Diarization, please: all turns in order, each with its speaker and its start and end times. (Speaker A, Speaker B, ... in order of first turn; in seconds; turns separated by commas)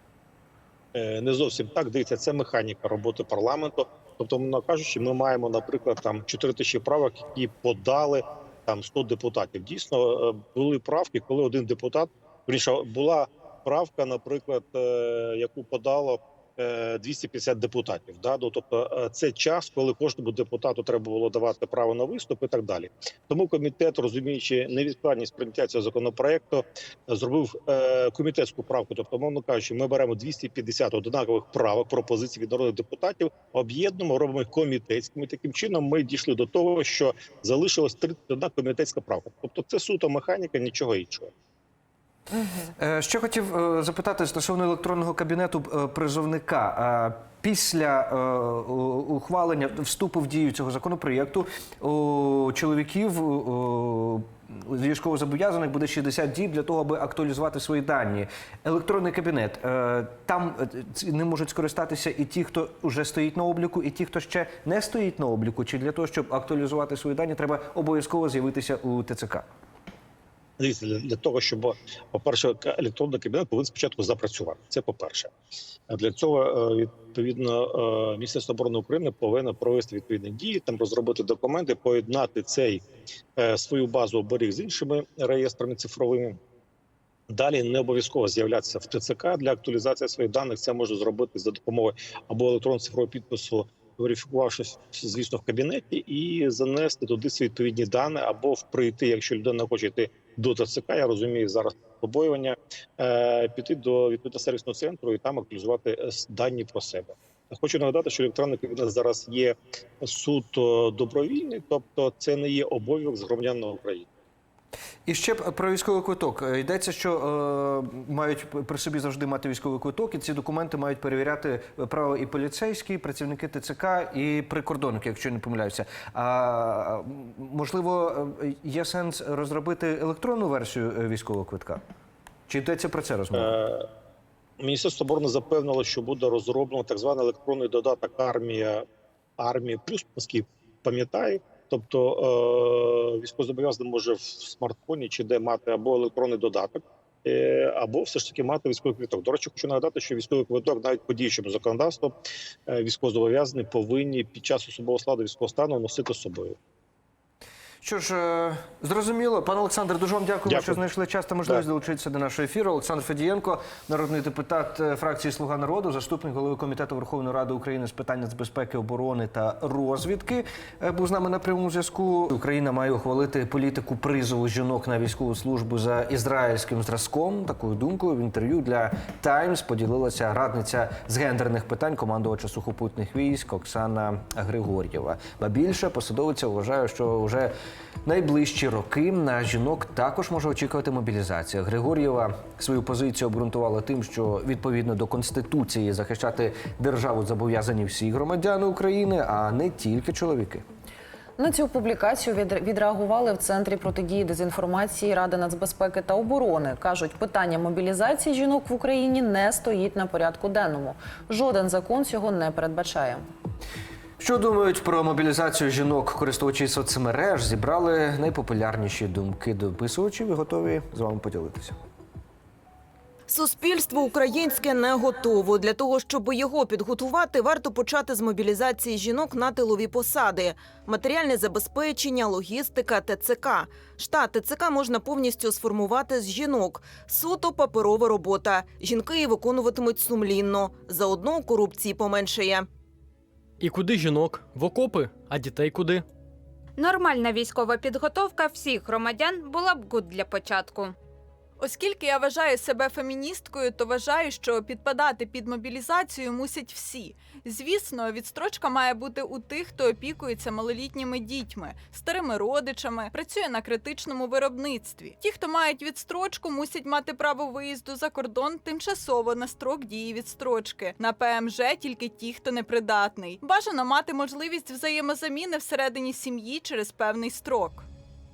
Speaker A: 0.9-41.3, Speaker B: 42.8-69.5, Speaker A: 70.6-75.3, Speaker A: 75.9-82.8, Speaker A: 83.4-86.4, Speaker A: 87.3-114.1, Speaker B: 115.1-131.8, Speaker B: 132.5-133.6, Speaker A: 133.4-133.9, Speaker A: 134.6-138.8, Speaker A: 139.4-152.2, Speaker A: 152.7-156.6, Speaker B: 157.8-187.5, Speaker A: 160.5-160.8, Speaker B: 188.1-200.6, Speaker C: 201.4-213.2, Speaker B: 214.2-221.8, Speaker D: 223.3-242.7, Speaker E: 243.6-246.1, Speaker F: 246.8-251.0, Speaker G: 251.6-277.9